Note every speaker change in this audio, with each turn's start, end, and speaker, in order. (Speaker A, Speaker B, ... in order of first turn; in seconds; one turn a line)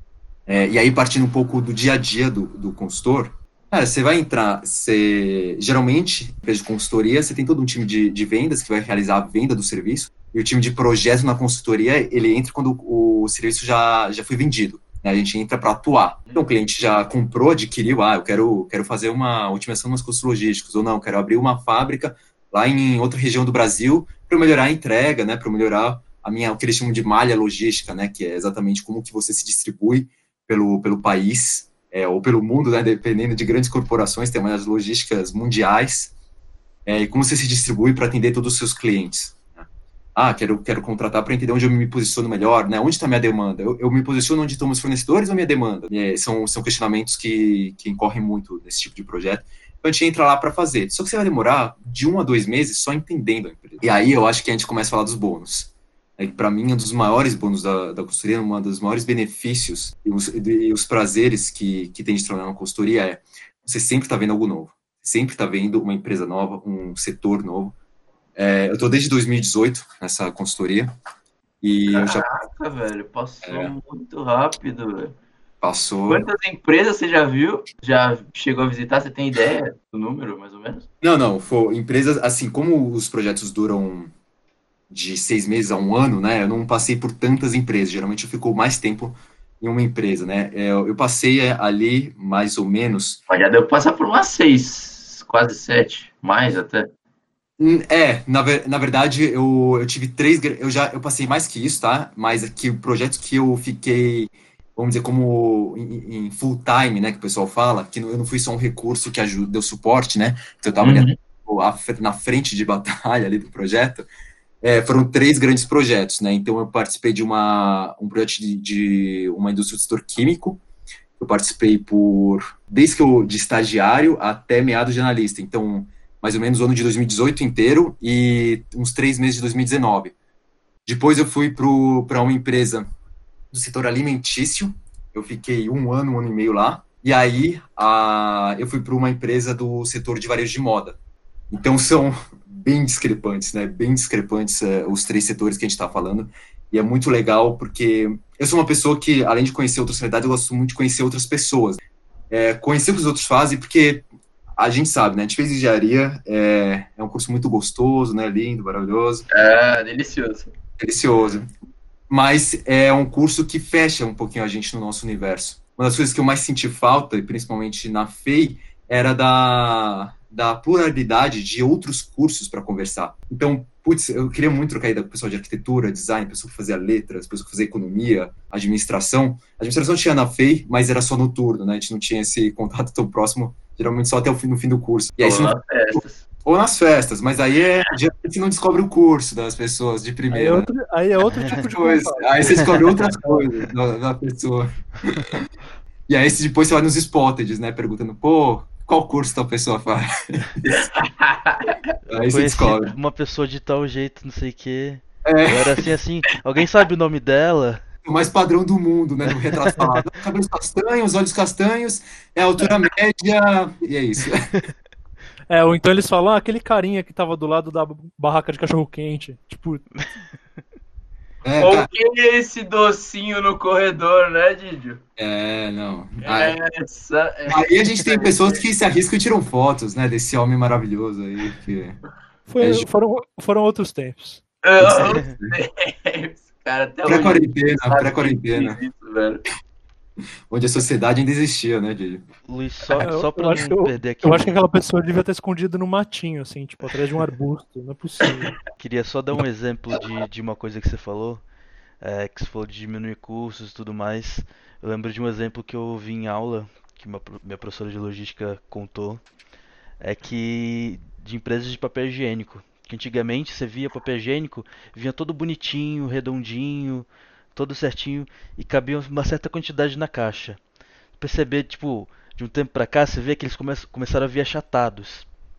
Speaker A: 0.5-36.1
Speaker A: 36.9-67.8
Speaker A: 68.4-70.9
Speaker A: 71.6-72.3
Speaker B: 71.9-75.2
Speaker A: 73.4-73.7
Speaker A: 75.6-76.3
Speaker B: 76.1-80.9
Speaker A: 81.0-84.1
Speaker A: 84.9-93.2
Speaker B: 93.3-96.9
Speaker A: 97.6-114.1
Speaker B: 110.8-111.2
Speaker A: 114.6-120.6
Speaker A: 121.2-130.1
Speaker A: 130.9-132.9
Speaker A: 133.5-141.0
Speaker A: 141.5-151.8
Speaker A: 152.3-159.3
Speaker B: 159.3-160.5
Speaker A: 160.8-161.5
Speaker A: 162.1-190.7
Speaker B: 185.2-186.3
Speaker C: 190.3-193.4
Speaker D: 191.3-191.6
Speaker A: 191.4-195.4
Speaker A: 196.1-200.9
Speaker B: 200.6-201.8
Speaker D: 202.1-207.8
Speaker A: 202.1-202.9
Speaker A: 205.2-205.9
Speaker A: 208.1-214.7
Speaker C: 215.5-220.0
Speaker A: 221.4-221.9
Speaker B: 221.6-225.0
Speaker A: 225.2-226.6
Speaker B: 226.2-228.7
Speaker A: 227.5-232.0
Speaker C: 232.5-234.4
Speaker A: 232.6-232.9
Speaker B: 234.6-239.4
Speaker A: 234.8-235.6
Speaker A: 237.1-238.8
Speaker A: 240.5-242.2
Speaker D: 242.5-244.6
Speaker C: 243.0-248.6
Speaker D: 248.7-251.4
Speaker D: 252.0-259.2
Speaker D: 260.0-270.6
Speaker D: 271.2-275.3